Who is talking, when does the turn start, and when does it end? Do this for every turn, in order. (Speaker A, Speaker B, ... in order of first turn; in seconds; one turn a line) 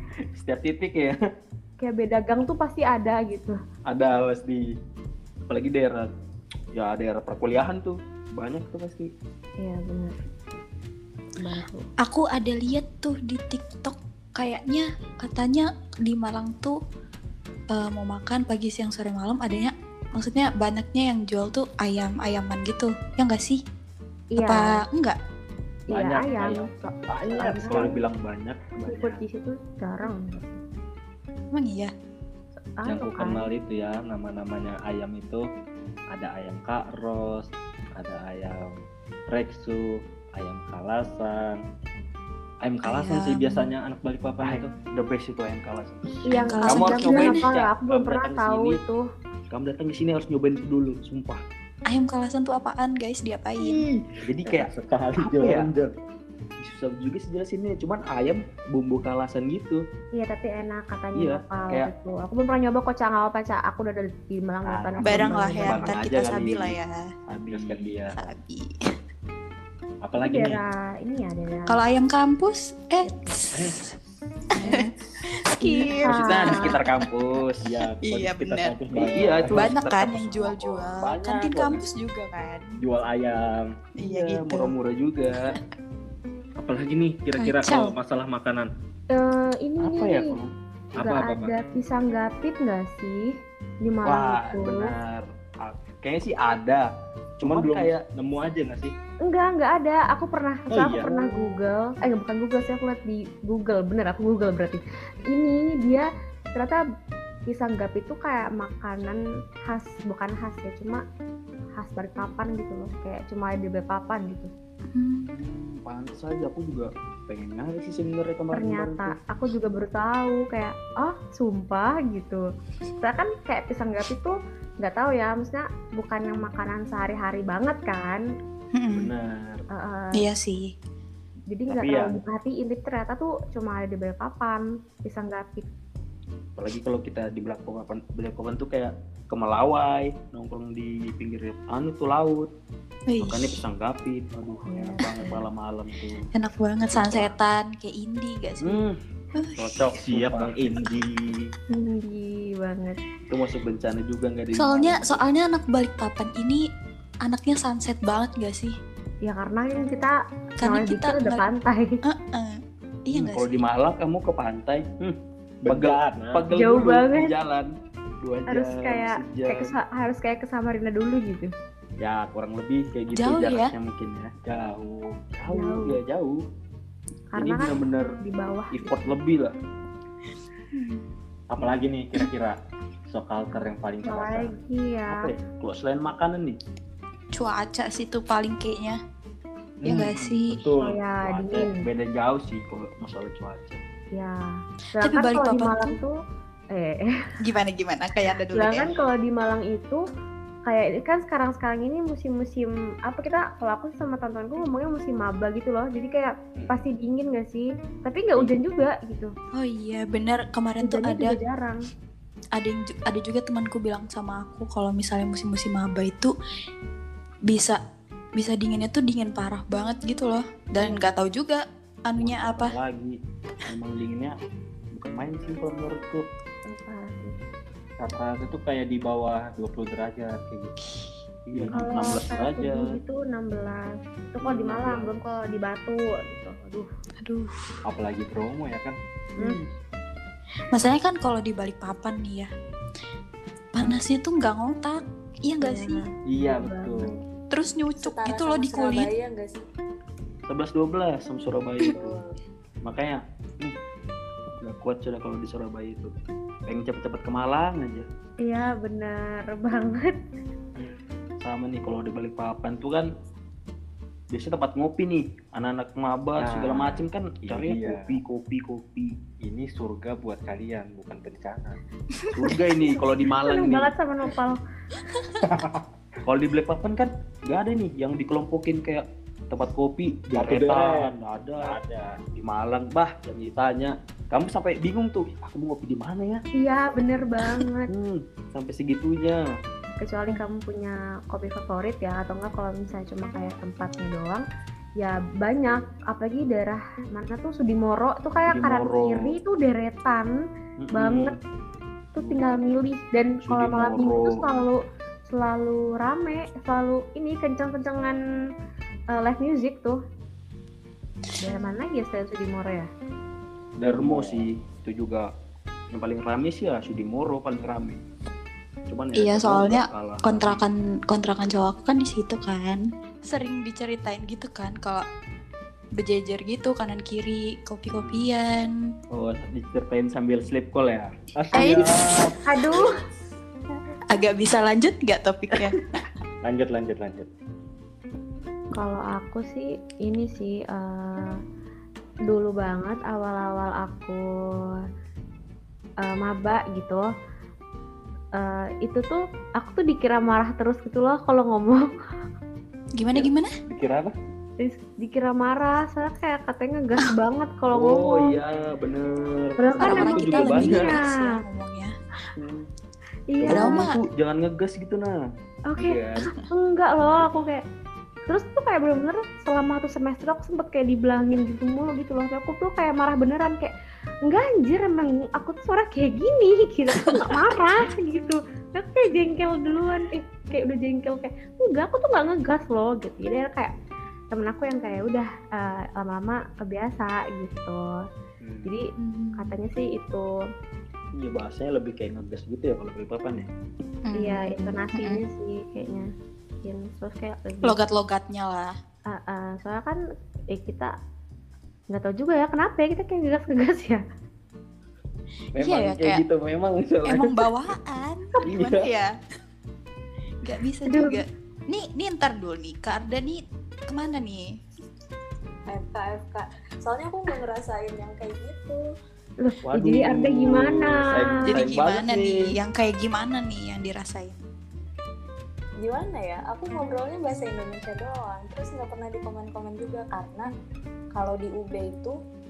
Speaker A: 0.3-1.1
Speaker B: 1.8-3.6
Speaker A: 3.9-4.7
Speaker A: 5.5-6.1
Speaker A: 6.7-9.1
Speaker B: 9.6-10.2
Speaker B: 11.4-11.8
Speaker C: 12.0-16.8
Speaker C: 17.7-23.6
Speaker B: 24.3-24.8
Speaker C: 24.4-25.2
Speaker B: 25.9-28.0
Speaker D: 25.9-28.0
Speaker A: 27.5-29.2
Speaker B: 28.9-30.6
Speaker C: 31.5-31.9
Speaker B: 32.8-33.5
Speaker D: 32.8-35.4
Speaker D: 36.1-38.8
Speaker D: 39.3-41.6
Speaker D: 42.6-44.7
Speaker C: 42.8-43.7
Speaker A: 44.4-48.8
Speaker B: 46.2-49.0
Speaker C: 46.3-47.4
Speaker A: 49.5-51.4
Speaker C: 51.9-53.8
Speaker A: 53.6-55.7
Speaker D: 54.4-55.9
Speaker A: 56.6-59.8
Speaker B: 60.1-65.8
Speaker A: 61.1-61.9
Speaker A: 64.7-66.7
Speaker C: 65.0-67.0
Speaker D: 65.8-66.0
Speaker A: 67.3-68.0
Speaker D: 67.5-68.2
Speaker C: 68.1-68.7
Speaker D: 70.0-70.6
Speaker B: 70.2-71.8
Speaker C: 71.7-73.9
Speaker B: 73.0-73.3
Speaker D: 73.5-73.8
Speaker C: 74.6-74.9
Speaker C: 75.5-77.0
Speaker B: 75.6-76.6
Speaker A: 76.0-77.7
Speaker D: 77.6-79.8
Speaker C: 78.0-82.7
Speaker A: 78.9-81.8
Speaker D: 82.8-83.7
Speaker C: 84.0-84.7
Speaker A: 84.0-85.5
Speaker D: 86.6-88.7
Speaker C: 87.3-87.9
Speaker B: 89.1-90.3
Speaker A: 89.8-90.5
Speaker D: 91.0-91.5
Speaker B: 91.0-94.9
Speaker A: 94.0-96.9
Speaker A: 97.4-98.0
Speaker D: 97.4-98.9
Speaker B: 99.2-106.8
Speaker D: 100.7-101.4
Speaker B: 107.5-111.0
Speaker B: 111.8-114.5
Speaker C: 114.9-115.3
Speaker A: 115.2-119.2
Speaker B: 118.5-122.4
Speaker B: 123.0-128.2
Speaker C: 128.7-129.1
Speaker A: 128.9-129.6
Speaker B: 129.7-130.2
Speaker C: 130.2-130.7
Speaker B: 131.5-135.7
Speaker A: 131.7-132.1
Speaker A: 136.6-142.5
Speaker C: 143.1-143.6
Speaker A: 143.2-146.3
Speaker B: 144.7-145.3
Speaker C: 145.0-145.4
Speaker C: 146.3-148.8
Speaker A: 146.9-147.3
Speaker A: 148.6-149.0
Speaker C: 149.3-149.8
Speaker A: 149.6-150.9
Speaker D: 149.9-151.5
Speaker B: 151.7-153.0
Speaker A: 153.3-155.2
Speaker C: 154.5-156.6
Speaker C: 157.2-158.8
Speaker B: 159.2-161.9
Speaker C: 160.6-161.4
Speaker C: 162.0-163.6
Speaker A: 163.1-167.7
Speaker D: 165.6-166.5
Speaker B: 166.5-167.3
Speaker A: 168.2-169.7
Speaker B: 168.5-171.5
Speaker A: 172.0-174.6
Speaker C: 173.1-173.7
Speaker D: 174.5-175.1
Speaker A: 175.2-176.4
Speaker B: 175.5-176.0
Speaker B: 177.3-179.1
Speaker A: 177.4-178.2
Speaker A: 178.7-179.5
Speaker C: 180.7-181.0
Speaker D: 181.5-182.6
Speaker D: 183.1-184.5
Speaker B: 184.0-185.2
Speaker A: 185.1-186.6
Speaker C: 187.3-189.0
Speaker D: 189.8-191.7
Speaker C: 189.8-190.6
Speaker B: 190.8-191.8
Speaker A: 191.8-193.8
Speaker B: 194.1-194.4
Speaker B: 194.9-196.1
Speaker C: 195.0-196.0
Speaker B: 196.7-197.1
Speaker C: 197.4-198.9
Speaker B: 198.5-200.1
Speaker B: 200.7-209.3
Speaker D: 206.6-206.8
Speaker C: 209.6-211.4
Speaker B: 210.8-211.8
Speaker C: 212.6-216.3
Speaker C: 217.5-217.8
Speaker C: 218.4-222.7
Speaker A: 222.2-224.3
Speaker A: 224.9-226.2
Speaker B: 226.7-227.4
Speaker D: 228.0-230.7
Speaker C: 230.8-231.1
Speaker A: 231.5-232.9
Speaker D: 231.5-231.9
Speaker B: 231.7-236.9
Speaker D: 234.5-235.2
Speaker C: 237.2-237.6
Speaker D: 237.8-238.9
Speaker A: 239.4-239.7
Speaker C: 240.7-242.5
Speaker C: 243.7-246.0
Speaker B: 245.6-247.1
Speaker D: 246.3-247.2
Speaker C: 247.5-249.1
Speaker E: 248.0-249.6
Speaker A: 250.5-252.2
Speaker E: 251.9-252.3
Speaker A: 252.8-253.2
Speaker A: 254.6-256.1
Speaker A: 256.7-258.1
Speaker B: 258.4-260.2
Speaker A: 261.4-263.1
Speaker A: 264.3-269.1
Speaker D: 266.4-268.2
Speaker D: 269.4-271.8
Speaker C: 272.1-272.6
Speaker A: 272.3-273.9
Speaker B: 273.3-274.6
Speaker D: 275.4-275.8
Speaker A: 276.2-281.8
Speaker D: 280.3-282.2
Speaker A: 282.3-286.4
Speaker B: 286.6-287.9
Speaker A: 287.9-289.4
Speaker B: 290.0-294.4
Speaker B: 295.0-300.3
Speaker A: 298.5-299.3
Speaker A: 300.8-301.3
Speaker B: 300.9-301.4
Speaker B: 302.1-308.2
Speaker A: 303.4-304.4
Speaker B: 309.1-310.0
Speaker B: 311.4-312.9
Speaker D: 313.8-314.5
Speaker A: 313.9-315.3
Speaker A: 315.9-318.0
Speaker A: 318.9-320.6
Speaker C: 319.1-325.0
Speaker C: 326.0-328.7
Speaker A: 329.1-331.1
Speaker D: 331.4-332.4
Speaker C: 331.5-332.0
Speaker B: 332.4-332.9
Speaker C: 334.1-335.8
Speaker D: 336.4-337.3
Speaker B: 338.7-341.4
Speaker B: 342.3-344.2
Speaker B: 346.0-347.1
Speaker B: 348.4-351.9
Speaker C: 353.0-353.5
Speaker D: 353.2-354.1
Speaker B: 354.6-358.3
Speaker A: 357.7-361.0
Speaker B: 359.6-361.3
Speaker C: 359.8-361.9
Speaker A: 362.4-362.7
Speaker B: 363.3-363.9
Speaker A: 363.4-365.2
Speaker C: 363.4-364.0
Speaker B: 365.7-367.6
Speaker A: 365.8-366.3
Speaker B: 368.3-373.7
Speaker B: 374.2-383.7
Speaker C: 377.0-377.3
Speaker B: 384.3-388.0
Speaker A: 388.4-388.7
Speaker B: 388.6-390.3
Speaker C: 389.0-389.5
Speaker A: 391.1-393.5
Speaker C: 394.1-395.2
Speaker B: 394.2-396.1
Speaker B: 396.6-397.8
Speaker C: 397.6-398.7
Speaker B: 399.1-400.0
Speaker B: 400.5-400.9
Speaker B: 401.9-404.0
Speaker C: 405.5-406.2
Speaker A: 405.5-407.4
Speaker C: 407.1-409.1
Speaker A: 408.4-408.9
Speaker C: 410.4-414.5
Speaker B: 410.9-411.2
Speaker E: 415.7-418.8
Speaker B: 419.4-421.3
Speaker A: 419.7-422.4
Speaker C: 421.4-424.4
Speaker E: 425.8-430.5
Speaker E: 431.1-432.1